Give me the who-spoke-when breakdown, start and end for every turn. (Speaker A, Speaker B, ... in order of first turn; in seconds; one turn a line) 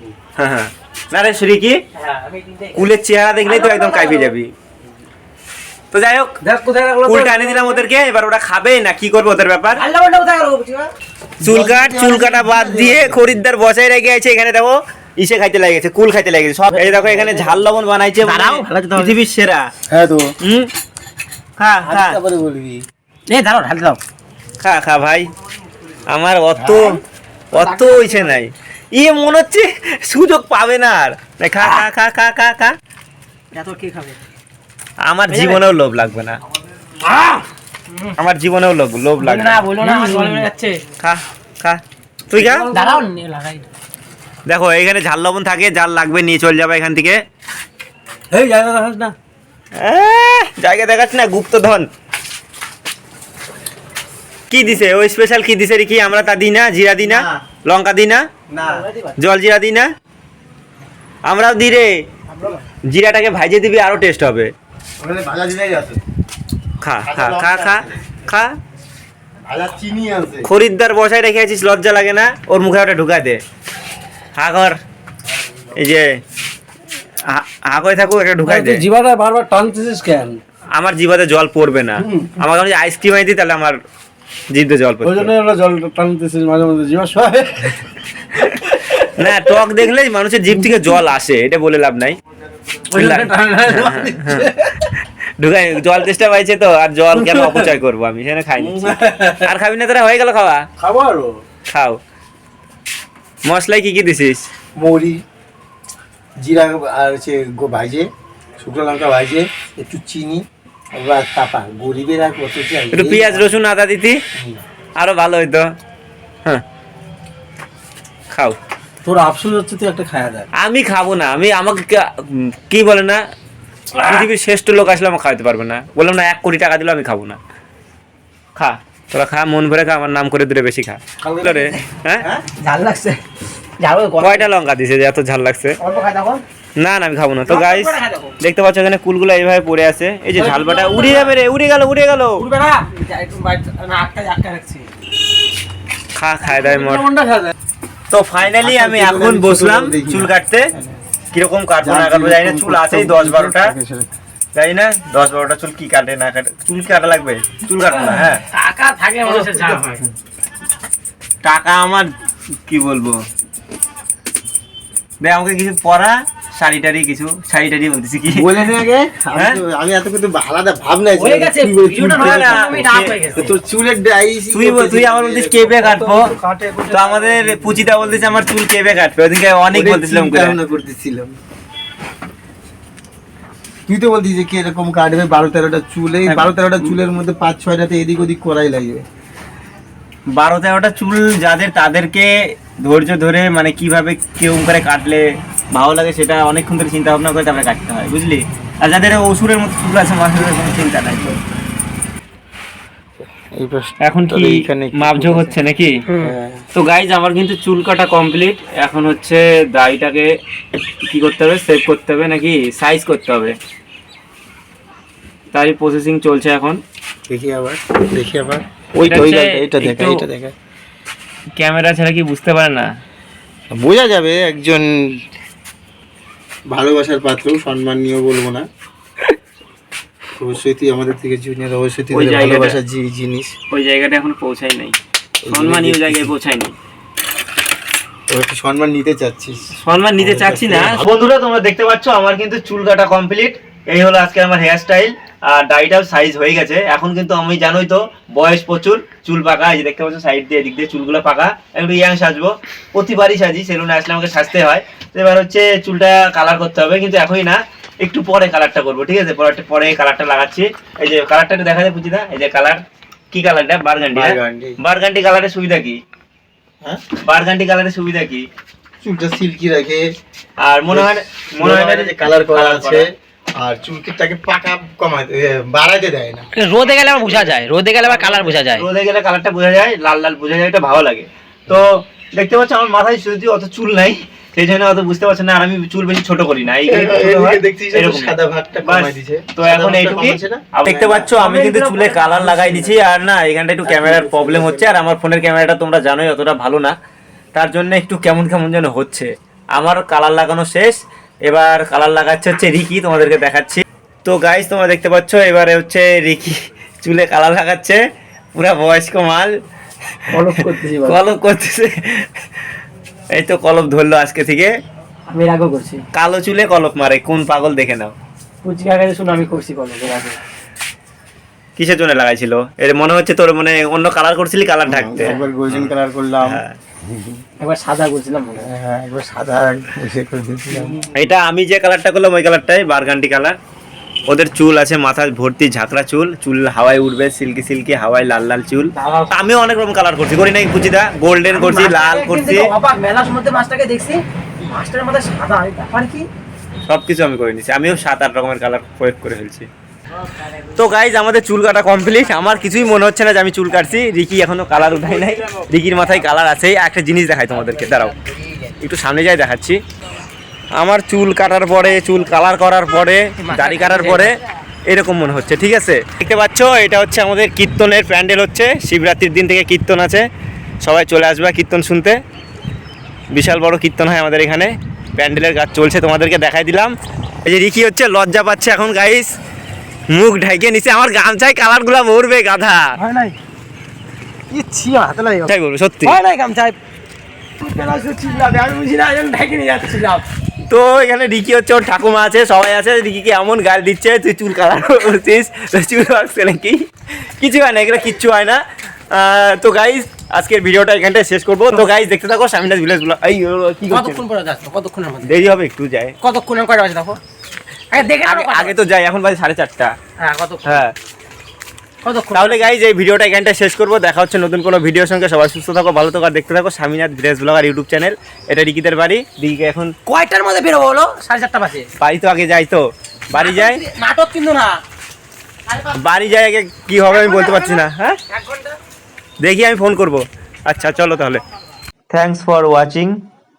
Speaker A: 0.3-1.8
Speaker B: 1.9-2.9
Speaker A: 2.7-4.5
Speaker B: 3.4-4.3
Speaker A: 5.9-6.4
Speaker C: 6.4-7.8
Speaker A: 7.0-9.8
Speaker B: 9.7-10.9
Speaker D: 11.4-13.4
Speaker A: 11.4-19.7
Speaker B: 16.7-17.5
Speaker B: 18.2-19.1
Speaker D: 19.9-20.3
Speaker A: 20.4-20.7
Speaker A: 21.6-22.2
Speaker D: 21.8-22.8
Speaker B: 23.3-24.0
Speaker A: 24.6-25.3
Speaker A: 26.1-27.0
Speaker D: 26.6-27.0
Speaker A: 27.5-32.7
Speaker B: 27.5-28.4
Speaker B: 33.5-34.2
Speaker A: 35.0-36.4
Speaker B: 35.3-35.6
Speaker B: 37.0-38.1
Speaker A: 38.2-39.6
Speaker B: 39.2-40.8
Speaker C: 39.8-40.4
Speaker A: 41.0-42.7
Speaker B: 42.4-43.6
Speaker C: 42.7-43.0
Speaker A: 44.5-47.2
Speaker C: 48.3-49.1
Speaker A: 49.8-51.9
Speaker A: 54.5-58.2
Speaker D: 57.0-57.4
Speaker D: 58.5-58.9
Speaker B: 58.6-59.1
Speaker A: 59.2-59.9
Speaker A: 61.2-61.9
Speaker B: 62.3-62.6
Speaker A: 62.9-64.5
Speaker D: 65.0-66.0
Speaker A: 66.8-68.5
Speaker D: 67.0-68.0
Speaker D: 69.5-70.5
Speaker A: 70.4-73.4
Speaker A: 74.3-74.8
Speaker A: 75.7-76.2
Speaker A: 77.3-78.8
Speaker C: 78.4-80.4
Speaker A: 80.7-83.8
Speaker A: 84.5-85.3
Speaker C: 85.0-87.8
Speaker C: 88.4-89.3
Speaker A: 89.0-92.2
Speaker A: 92.9-94.5
Speaker B: 93.0-94.5
Speaker C: 93.0-94.0
Speaker A: 95.4-100.6
Speaker C: 97.2-97.7
Speaker C: 98.7-99.4
Speaker C: 100.8-101.3
Speaker A: 101.7-102.0
Speaker A: 103.5-104.5
Speaker D: 104.8-105.2
Speaker D: 106.4-108.1
Speaker D: 108.6-113.5
Speaker A: 112.9-114.2
Speaker A: 115.0-115.6
Speaker C: 119.0-120.5
Speaker A: 120.5-123.2
Speaker A: 124.0-127.4
Speaker A: 128.5-132.3
Speaker B: 131.3-133.2
Speaker B: 133.8-134.5
Speaker A: 134.2-135.8
Speaker B: 135.8-136.4
Speaker A: 136.8-142.4
Speaker B: 137.5-138.3
Speaker B: 140.3-141.3
Speaker B: 142.4-144.9
Speaker A: 146.1-147.1
Speaker C: 146.5-147.5
Speaker A: 148.1-150.7
Speaker D: 148.4-151.0
Speaker A: 151.3-153.7
Speaker D: 151.8-154.1
Speaker A: 154.5-158.4
Speaker B: 157.8-160.0
Speaker D: 159.2-160.0
Speaker A: 161.4-162.1
Speaker A: 162.7-163.2
Speaker A: 165.2-168.6
Speaker D: 168.3-177.3
Speaker A: 169.3-169.6
Speaker B: 171.2-173.5
Speaker A: 172.2-173.1
Speaker A: 174.5-176.3
Speaker A: 176.9-180.6
Speaker D: 179.7-181.3
Speaker D: 183.9-189.0
Speaker A: 186.3-186.9
Speaker A: 190.3-201.4
Speaker D: 203.3-205.6
Speaker A: 204.0-206.0
Speaker B: 206.1-206.3
Speaker D: 206.2-206.6
Speaker A: 206.7-210.3
Speaker A: 211.0-213.6
Speaker A: 215.5-216.8
Speaker D: 217.3-220.5
Speaker A: 219.1-220.2
Speaker A: 221.6-222.9
Speaker D: 223.7-224.9
Speaker D: 226.7-228.7
Speaker D: 230.4-233.5
Speaker A: 232.1-232.8
Speaker A: 233.7-236.7
Speaker D: 235.4-236.3
Speaker D: 238.3-239.6
Speaker A: 239.8-266.0
Speaker D: 240.2-241.1
Speaker D: 264.1-264.8
Speaker A: 267.2-268.4
Speaker D: 269.0-270.1
Speaker A: 270.6-273.1
Speaker D: 270.9-276.5
Speaker B: 276.5-278.9
Speaker A: 276.8-296.9
Speaker D: 286.9-291.3
Speaker B: 291.4-292.8
Speaker D: 292.4-292.8
Speaker D: 293.9-294.9
Speaker A: 297.5-300.9
Speaker A: 301.5-308.0
Speaker A: 308.5-309.5
Speaker B: 310.3-311.2
Speaker A: 310.4-312.3
Speaker A: 313.3-314.7
Speaker B: 315.3-316.0
Speaker A: 316.1-318.1
Speaker B: 318.6-320.4
Speaker A: 321.8-326.8
Speaker D: 324.9-326.6
Speaker B: 327.6-328.7
Speaker D: 328.6-331.0
Speaker A: 331.1-333.6
Speaker A: 334.3-342.7
Speaker B: 339.0-339.3
Speaker B: 341.5-346.3
Speaker A: 346.9-349.7
Speaker B: 350.2-350.8
Speaker A: 350.8-358.1
Speaker B: 352.0-352.7
Speaker B: 357.5-358.8
Speaker A: 358.8-359.8
Speaker A: 360.8-370.2
Speaker B: 363.4-364.4
Speaker A: 370.8-372.2
Speaker A: 373.3-379.3
Speaker A: 380.1-383.0
Speaker B: 382.9-383.4
Speaker B: 384.5-385.5
Speaker A: 385.5-386.2
Speaker B: 386.0-386.8
Speaker B: 387.6-390.3
Speaker A: 390.7-404.2
Speaker B: 403.9-405.4
Speaker A: 405.2-406.1
Speaker B: 406.2-407.2
Speaker B: 407.9-408.8
Speaker A: 408.2-409.9
Speaker B: 410.2-410.9
Speaker A: 410.6-410.9
Speaker B: 412.0-412.7
Speaker A: 412.3-419.9
Speaker B: 420.1-421.9
Speaker A: 422.0-423.8
Speaker B: 423.3-424.8
Speaker A: 425.9-428.2
Speaker B: 427.0-428.8
Speaker A: 429.4-431.4
Speaker A: 432.1-433.2